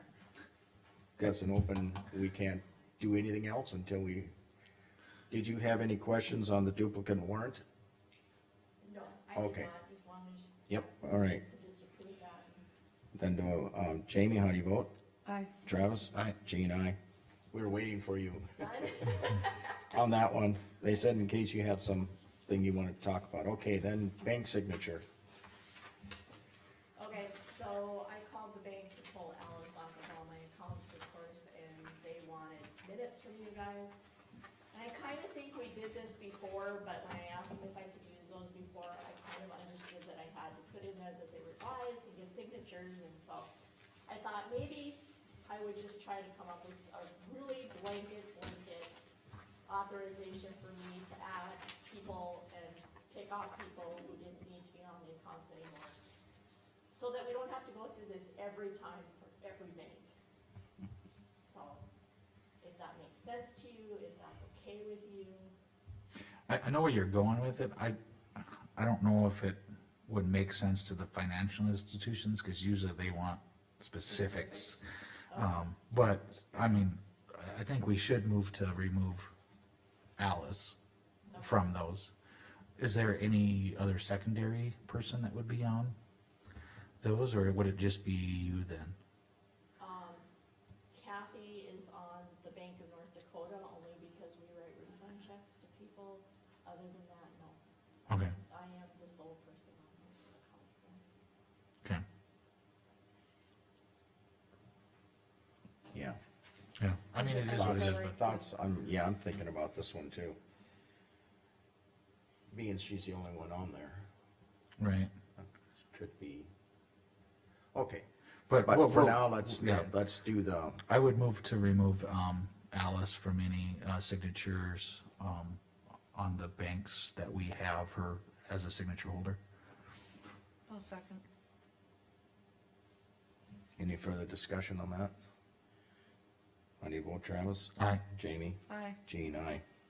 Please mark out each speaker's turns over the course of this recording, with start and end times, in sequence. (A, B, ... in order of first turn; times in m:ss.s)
0:01.2-0:04.3 A
0:05.3-0:07.6 A
0:08.8-0:12.6 B
0:09.3-0:09.7 A
0:10.7-0:11.4 A
0:13.1-0:14.9 A
0:15.2-0:15.5 C
0:15.6-0:17.0 A
0:17.5-0:25.0 A
0:18.6-0:19.4 B
0:27.0-0:34.0 B
0:34.7-0:43.5 B
0:44.1-0:49.0 B
0:49.7-0:56.0 B
0:56.5-1:00.1 B
1:01.5-1:01.8 B
1:02.6-1:05.5 B
1:06.5-1:19.3 D
1:14.1-1:14.8 C
1:15.3-1:15.7 B
1:16.5-1:16.8 A
1:20.2-1:20.8 D
1:21.3-1:21.6 B
1:21.4-1:22.1 D
1:22.8-1:26.0 D
1:27.0-1:29.0 D
1:29.8-1:30.2 B
1:30.9-1:37.6 B
1:38.1-1:38.3 D
1:38.1-1:41.0 B
1:45.9-1:46.2 A
1:46.8-1:48.2 D
1:47.2-1:48.3 C
1:47.4-1:50.4 A
1:52.5-1:54.0 A
1:54.8-1:55.1 D
1:55.8-1:56.5 A
1:57.7-1:58.0 A
1:58.5-1:59.9 D
1:58.6-2:00.8 A
2:00.8-2:05.6 D
2:06.1-2:09.4 D
2:10.7-2:11.2 C
2:13.8-2:15.1 A
2:16.8-2:19.6 A
2:17.8-2:18.0 D
2:18.7-2:19.0 C